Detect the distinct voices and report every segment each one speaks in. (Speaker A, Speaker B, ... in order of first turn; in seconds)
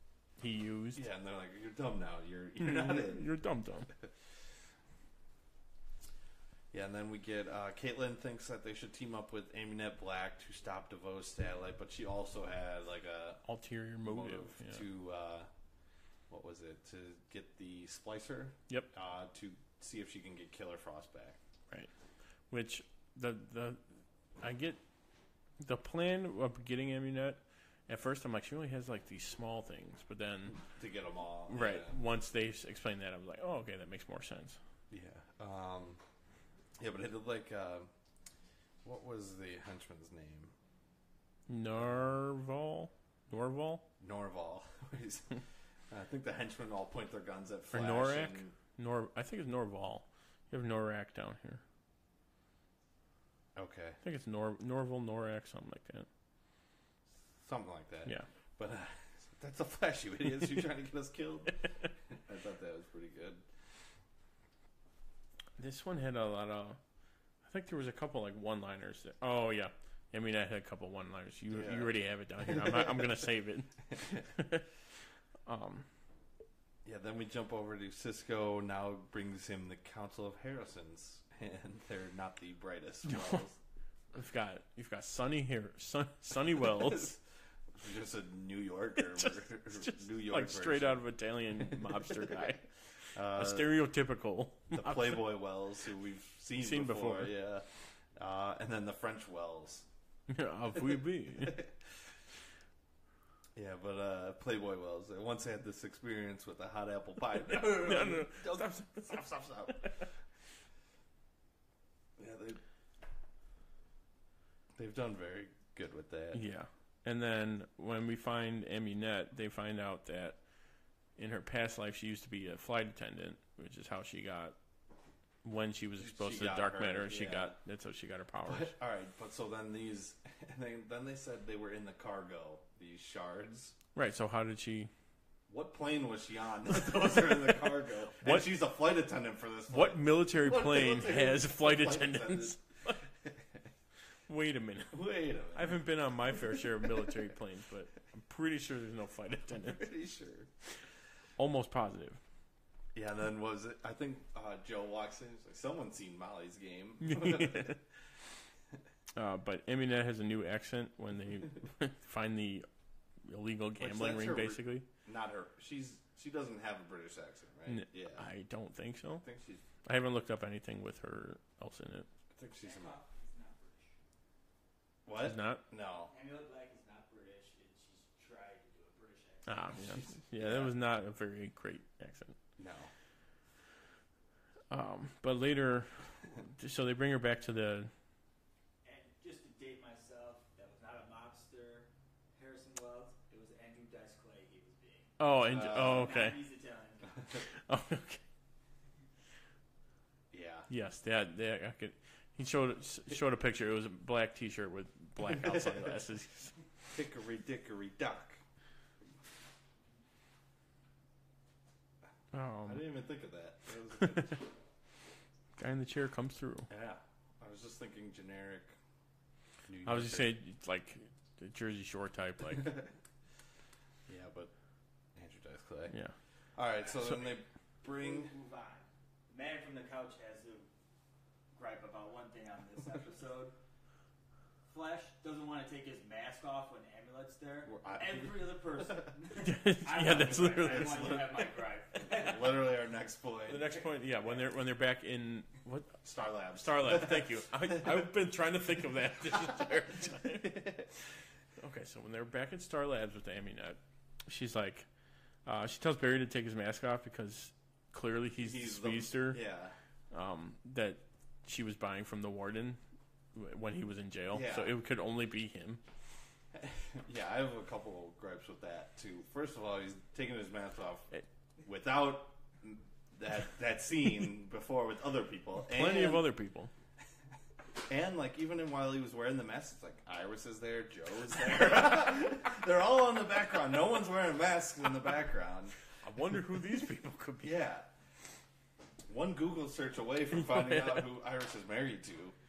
Speaker A: 0.4-1.0, 2.6-3.9, 13.4-14.9, 22.5-23.8, 24.4-24.8, 25.6-30.6, 31.5-34.6, 41.5-43.9, 47.7-51.6, 54.0-56.1, 65.6-66.8, 67.4-74.7, 75.5-75.9, 83.1-83.4, 84.1-87.1, 89.1-92.7, 93.3-95.3, 96.6-97.4, 100.3-101.6, 107.5-110.0, 116.3-120.4, 121.2-124.6, 125.4-128.7, 133.9-134.9, 136.9-137.6, 138.2-138.5, 139.7-143.0, 144.3-145.0, 145.5-149.9, 151.4-152.2, 157.0-157.8, 159.2-162.7, 163.3-164.9, 167.7-169.2, 169.8-172.1, 175.2-175.6, 179.5-182.4, 184.7-186.0, 186.5-187.9, 195.2-196.4, 197.5-198.2, 200.7-206.5, 212.3-212.9, 214.0-214.4, 215.6-216.7, 219.8-222.8, 225.9-226.2, 239.4-241.3, 243.5-246.0, 246.6-250.7, 251.6-254.9, 255.5-259.4, 260.1-262.8, 263.3-265.8, 275.6-276.7, 286.0-287.5
Speaker B: 0.9-3.3, 6.7-13.4, 14.0-15.5, 16.3-21.4, 30.5-32.0, 34.9-36.0, 36.8-37.9, 38.8-40.5, 41.8-42.0, 44.0-48.5, 53.5-54.0, 57.4-63.5, 71.5-73.2, 73.9-74.2, 76.8-83.6, 86.5-87.2, 87.7-91.0, 91.6-92.6, 93.2-93.8, 94.7-99.9, 100.8-101.8, 103.5-110.1, 112.2-112.6, 114.8-116.4, 126.0-127.6, 128.5-133.8, 135.5-143.7, 144.9-145.9, 147.0-147.2, 149.5-150.5, 152.9-157.8, 163.8-168.3, 169.2-169.7, 172.3-173.0, 175.1-176.1, 179.9-180.7, 182.6-182.9, 195.5-196.1, 200.3-200.7, 205.2-206.0, 206.9-208.4, 212.7-214.4, 216.7-218.8, 219.7-220.4, 224.1-224.5, 225.2-225.9, 226.6-228.3, 237.7-238.7, 240.7-241.3, 242.1-244.3, 246.0-248.1, 249.5-250.9, 258.4-259.8, 264.3-264.8, 266.5-271.1, 271.6-276.3, 277.9-285.8, 287.4-287.9, 289.1-292.4
Speaker C: 172.6-174.0, 176.1-179.8, 188.8-197.2, 226.8-230.7, 231.5-233.6, 234.7-242.7